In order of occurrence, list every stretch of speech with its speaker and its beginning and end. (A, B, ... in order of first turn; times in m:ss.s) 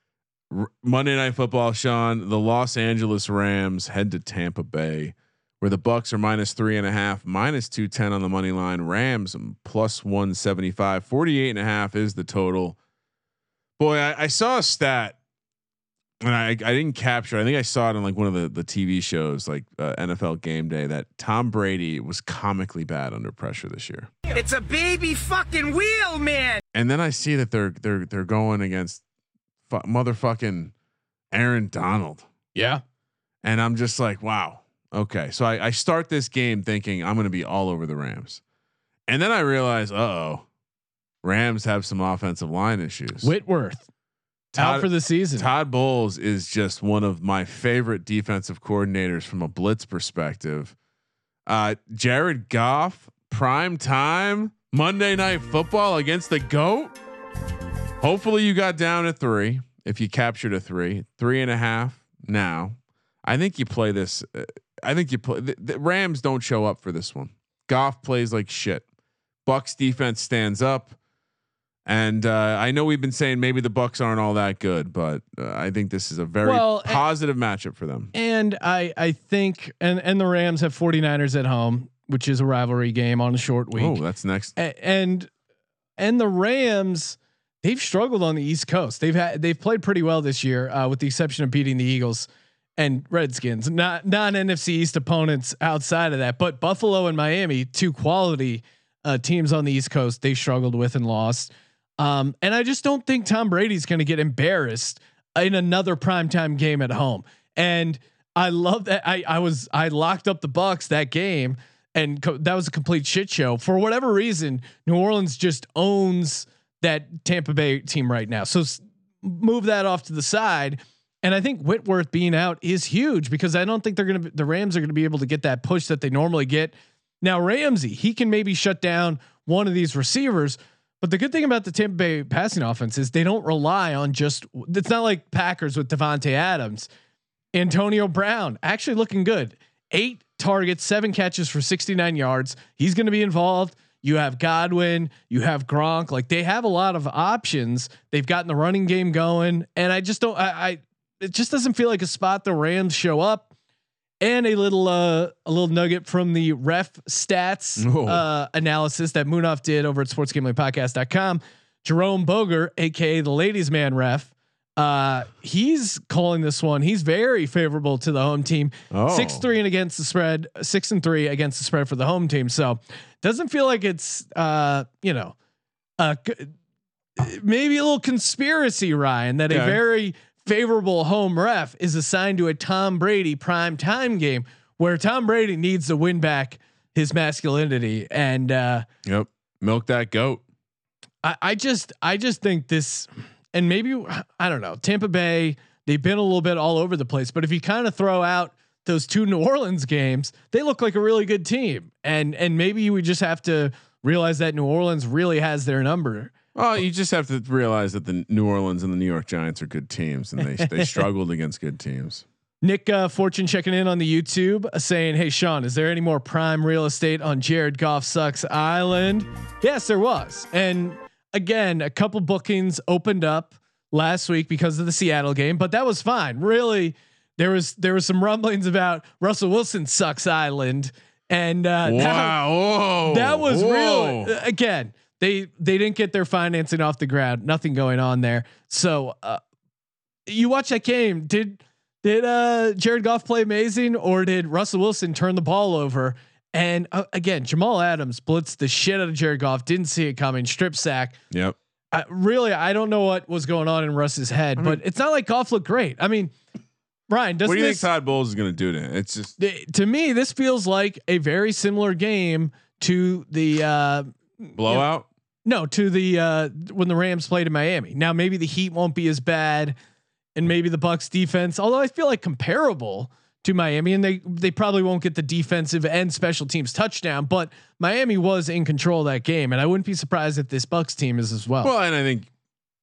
0:00.5-0:12.8 A
0:13.8-0:15.2 A
0:16.2-0:24.1 A
0:24.3-0:26.6 B
0:26.7-0:29.0 A
0:29.7-0:30.7 A
0:31.3-0:32.2 A
0:32.5-0:32.8 C
0:33.4-0:38.4 A
0:39.1-0:40.4 A
0:41.2-0:43.3 A
0:43.2-0:43.8 C
0:44.5-0:50.7 A
0:44.6-0:45.5 C
0:51.4-0:56.9 A
0:58.0-1:08.8 A
1:09.4-1:11.0 A
1:11.8-1:18.1 A
1:16.4-1:17.0 C
1:18.1-1:24.0 C
1:23.7-1:24.6 A
1:24.6-1:25.3 C
1:26.0-1:32.3 C
1:32.8-2:16.9 C
2:17.5-2:33.5 C
2:34.2-2:55.3 C
2:37.8-2:38.2 A
2:48.9-2:49.4 A
2:56.0-2:56.5 C
2:57.2-3:08.8 C
2:59.5-2:59.8 A
3:09.0-3:10.4 A
3:11.2-3:26.3 C
3:26.5-3:32.2 A
3:30.4-3:30.9 C
3:32.6-3:52.5 C
3:51.8-3:54.3 A
3:53.0-3:59.4 C
4:00.3-4:11.2 C
4:11.3-4:11.6 A
4:11.9-4:16.3 C
4:17.1-4:17.9 C
4:17.4-4:19.3 A
4:19.4-4:24.9 C
4:24.6-4:25.1 A
4:25.4-4:29.8 C
4:30.4-4:41.7 C
4:41.6-4:42.3 A